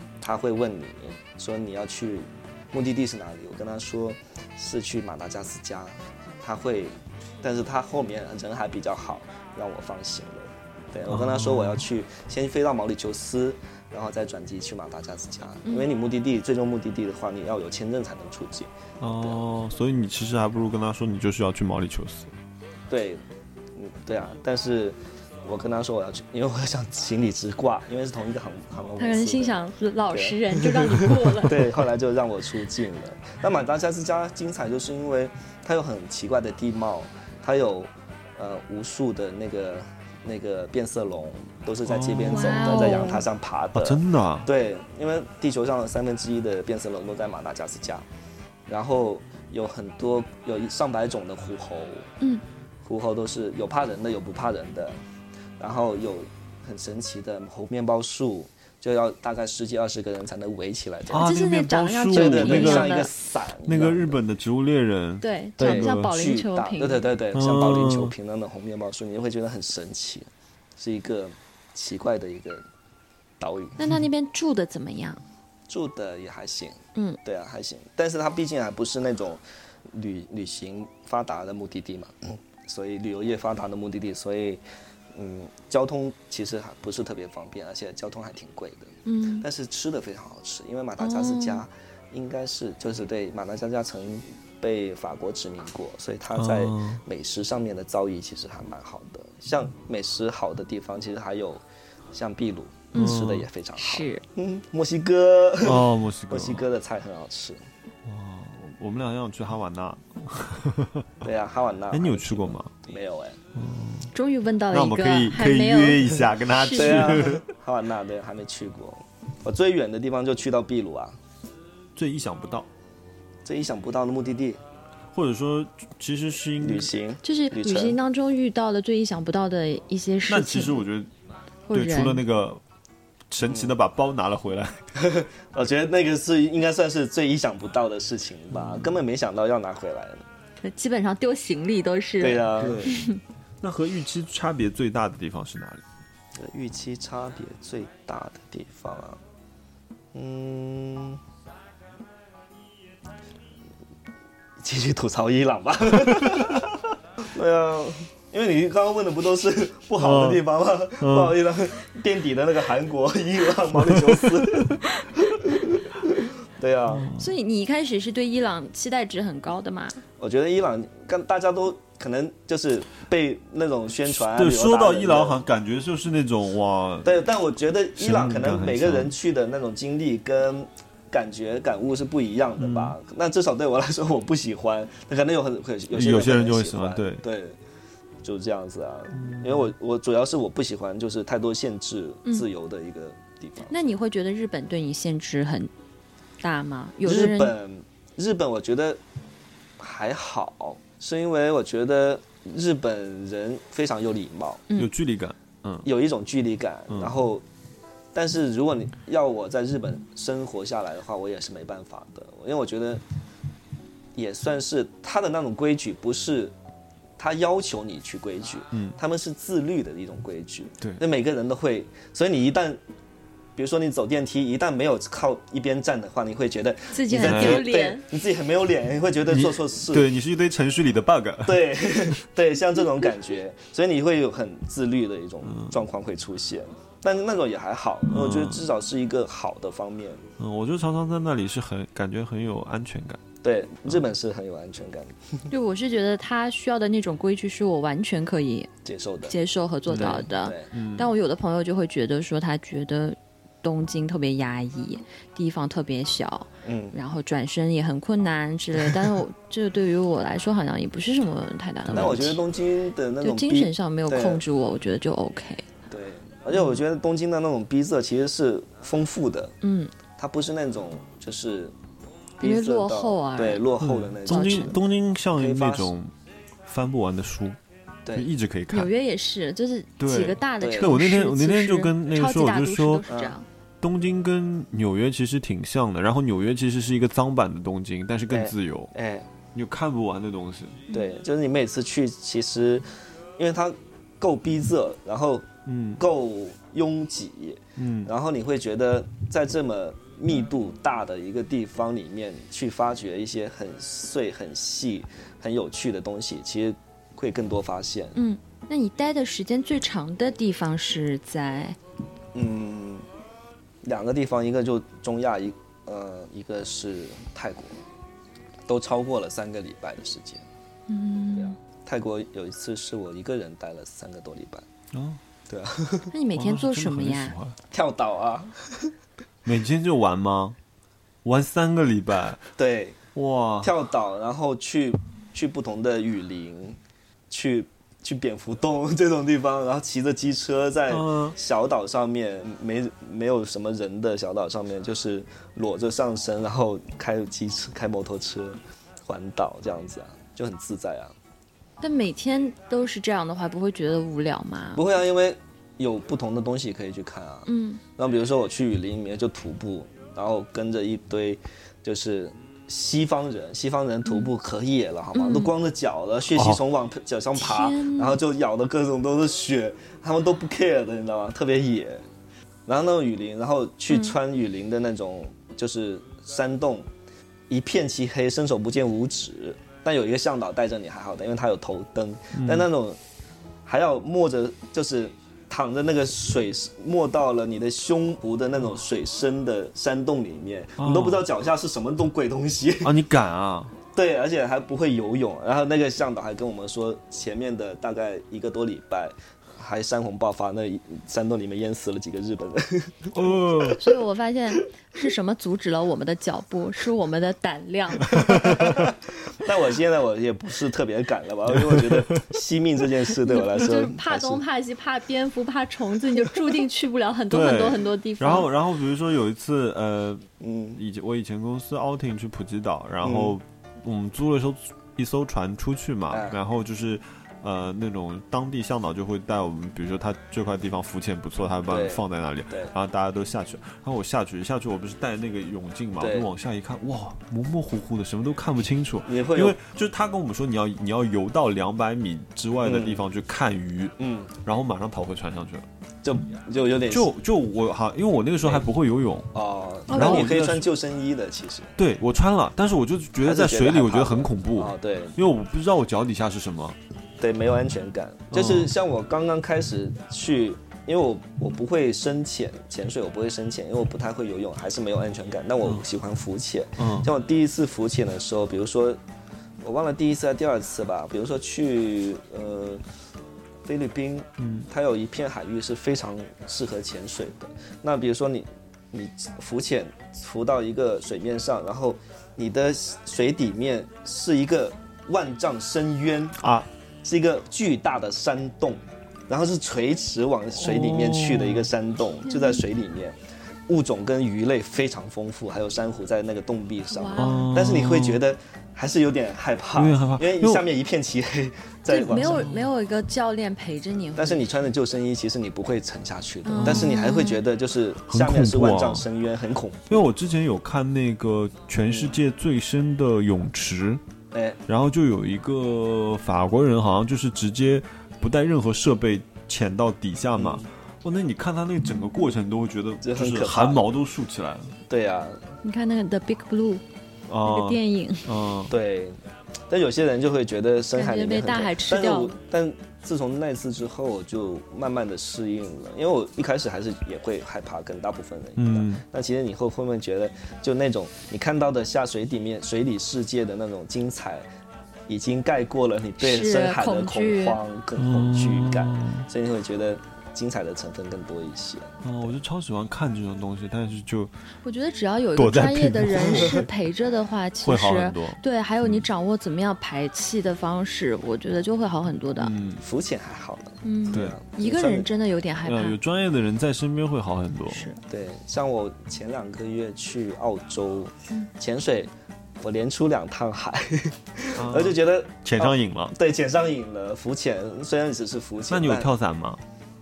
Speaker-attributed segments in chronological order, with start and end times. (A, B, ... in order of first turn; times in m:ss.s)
0:00.2-0:19.4 A
0:11.1-0:11.8 B
0:19.0-0:22.3 B
0:22.9-0:23.2 A
0:23.7-0:29.6 A
0:29.0-0:31.7 C
0:30.1-0:48.0 A
0:41.8-0:42.9 B
0:42.2-0:43.2 C
0:43.7-0:44.5 B
0:48.6-0:52.1 A
0:52.8-0:55.0 A
0:55.6-1:01.3 A
1:01.1-1:03.0 B
1:01.1-1:03.1 C
1:02.1-1:04.2 A
1:03.6-1:06.1 B
1:05.2-1:07.1 C
1:05.6-1:12.6 A
1:07.3-1:08.1 B
1:13.4-1:13.8 A
1:13.8-1:15.2 C
1:15.7-1:24.6 A
1:25.1-1:47.6 A
1:29.0-1:29.4 C
1:31.0-1:31.6 C
1:36.3-1:37.0 B
1:42.9-1:43.2 C
1:42.9-1:43.5 B
1:43.8-1:44.2 C
1:45.6-1:46.6 B
1:48.0-1:51.2 B
1:51.2-1:53.4 A
1:51.9-1:52.7 B
1:53.5-1:54.1 B
1:54.1-1:57.2 C
1:54.7-1:57.4 B
1:56.7-2:01.2 A
2:01.9-2:02.7 B
2:03.4-2:04.6 A
2:05.1-2:06.9 B
2:06.6-2:08.0 A
2:07.2-2:10.8 C
2:10.3-2:11.1 B
2:11.7-2:12.2 C
2:11.7-2:12.6 B
2:13.3-2:14.9 B
2:13.5-2:13.7 A
2:15.0-2:20.2 A
2:18.5-2:19.0 B
2:20.6-2:23.2 C
2:22.2-2:22.9 A
2:22.6-2:23.0 B
2:23.6-2:25.8 B
2:26.4-2:29.2 A
2:30.1-2:31.2 A
2:34.6-2:36.7 A
2:37.2-2:47.1 A
2:40.0-2:40.4 B
2:41.0-2:41.4 B
2:43.8-2:44.7 B
2:46.9-2:47.3 B
2:47.1-2:50.0 C
2:50.2-2:55.4 A
2:54.1-2:57.1 B
2:57.0-3:07.6 A
2:58.0-2:59.1 B
3:02.6-3:03.0 B
3:05.9-3:07.2 B
3:08.2-3:13.9 A
3:09.2-3:09.7 B
3:13.7-3:15.7 C
3:16.4-3:17.5 C
3:17.0-3:19.0 A
3:19.8-3:24.6 A
3:24.8-3:25.9 B
3:25.8-3:27.4 A
3:26.9-3:27.2 B
3:28.1-3:33.0 A
3:34.1-3:36.5 A
3:37.2-3:42.8 A
3:38.7-3:39.0 B
3:43.5-3:50.1 A
3:46.9-3:48.0 C
3:47.2-3:47.7 B
3:49.3-3:51.7 B
3:51.4-4:00.2 A
3:55.4-3:55.7 B
3:58.1-3:58.6 B
4:00.4-4:03.2 B
4:03.4-4:05.5 A
4:05.5-4:08.7 C
4:08.8-4:09.4 A
4:09.3-4:22.4 C
4:09.9-4:11.1 B
4:09.9-4:10.7 A
4:16.6-4:17.0 A
4:21.9-4:22.3 B
4:21.9-4:24.4 A
4:23.2-4:25.7 C
4:25.9-4:29.5 A
4:29.6-4:29.9 C
4:30.1-4:31.7 A
4:32.4-4:33.6 C
4:32.4-4:34.8 A
4:33.8-4:36.1 B
4:34.2-4:34.8 C
4:35.3-4:35.9 A
4:36.6-4:37.6 B
4:38.1-4:38.9 B
4:38.7-4:43.5 C
4:40.0-4:43.0 B
4:40.6-4:40.9 A
4:43.0-4:43.4 A
4:43.8-4:48.9 B
4:48.3-4:49.3 A
4:49.5-4:50.8 B
4:50.9-5:08.2 A
4:55.6-4:56.0 B
4:57.8-4:58.1 B
5:08.2-5:11.8 C
5:12.3-5:13.0 A
5:13.8-5:17.8 A
5:18.7-5:20.4 A
5:20.9-5:21.6 C
5:21.3-5:24.6 A
5:24.9-5:25.2 B
5:25.5-5:26.1 A
5:26.1-5:27.4 C
5:26.3-5:27.6 B
5:27.7-5:28.9 A
5:29.4-5:30.6 B
5:31.2-5:32.4 B
5:32.6-5:33.0 A
5:33.1-5:33.7 B
5:33.6-5:36.8 A
5:37.3-5:51.1 A
5:40.9-5:41.4 B
5:51.8-5:54.8 C
5:54.7-6:12.0 A
5:57.4-5:57.8 C
6:05.1-6:05.5 C
6:06.3-6:06.6 B
6:07.4-6:08.2 C
6:12.6-6:16.9 A
6:13.9-6:14.1 C
6:17.5-6:23.0 A
6:22.3-6:22.7 B
6:23.6-6:32.9 A
6:30.8-6:31.2 B
6:32.8-6:33.7 B
6:33.9-6:43.9 A
6:43.1-6:43.8 B
6:43.8-6:48.3 C
6:48.2-6:48.8 B
6:48.3-6:54.4 A
6:51.5-6:52.2 B
6:53.2-6:58.5 C
6:57.3-7:25.6 B
7:00.4-7:00.8 A
7:03.0-7:03.3 A
7:06.1-7:06.4 A
7:11.6-7:12.7 A
7:16.0-7:16.3 A
7:19.1-7:19.6 A
7:22.6-7:23.0 A
7:24.0-7:24.3 A
7:26.0-7:27.1 A
7:26.9-7:29.3 B
7:29.3-7:31.7 A
7:29.9-7:30.3 C
7:29.9-7:30.7 B
7:31.8-7:36.8 B
7:33.2-7:35.2 A
7:37.2-7:49.0 A
7:38.3-7:38.7 B
7:46.8-7:47.1 B
7:49.6-7:52.8 A
7:53.6-8:06.4 A
7:54.4-7:54.7 B
8:06.4-8:06.7 B
8:07.0-8:13.2 A
8:10.5-8:11.7 B
8:12.3-8:12.6 C
8:13.7-8:22.5 A
8:16.9-8:17.5 C
8:17.2-8:18.2 B
8:19.7-8:20.6 B
8:21.9-8:24.5 C
8:22.2-8:22.6 B
8:24.2-8:30.1 A
8:26.4-8:27.4 C
8:26.6-8:26.9 B
8:28.1-8:29.0 B
8:29.9-8:34.0 B
8:31.8-8:32.1 A
8:34.3-8:34.6 A
8:34.7-8:44.7 B
8:40.3-8:40.7 A
8:43.0-8:43.8 A
8:44.9-8:45.4 A
8:45.6-8:46.8 C
8:47.3-8:48.7 B
8:47.4-8:48.3 C
8:48.7-8:49.2 A
8:49.7-9:04.4 A
8:50.9-8:52.4 C
8:58.6-8:59.0 B
9:05.1-9:12.3 A
9:06.2-9:07.6 C
9:08.0-9:09.2 B
9:12.0-9:14.3 B
9:14.6-9:22.5 C
9:15.4-9:16.7 B
9:17.6-9:19.0 B
9:22.4-9:22.8 B
9:22.8-9:25.1 A
9:23.8-9:26.0 C
9:24.1-9:24.4 B
9:25.6-9:27.9 B
9:27.7-9:28.0 C
9:28.0-9:39.1 A
9:34.5-9:36.1 B
9:38.7-9:39.6 B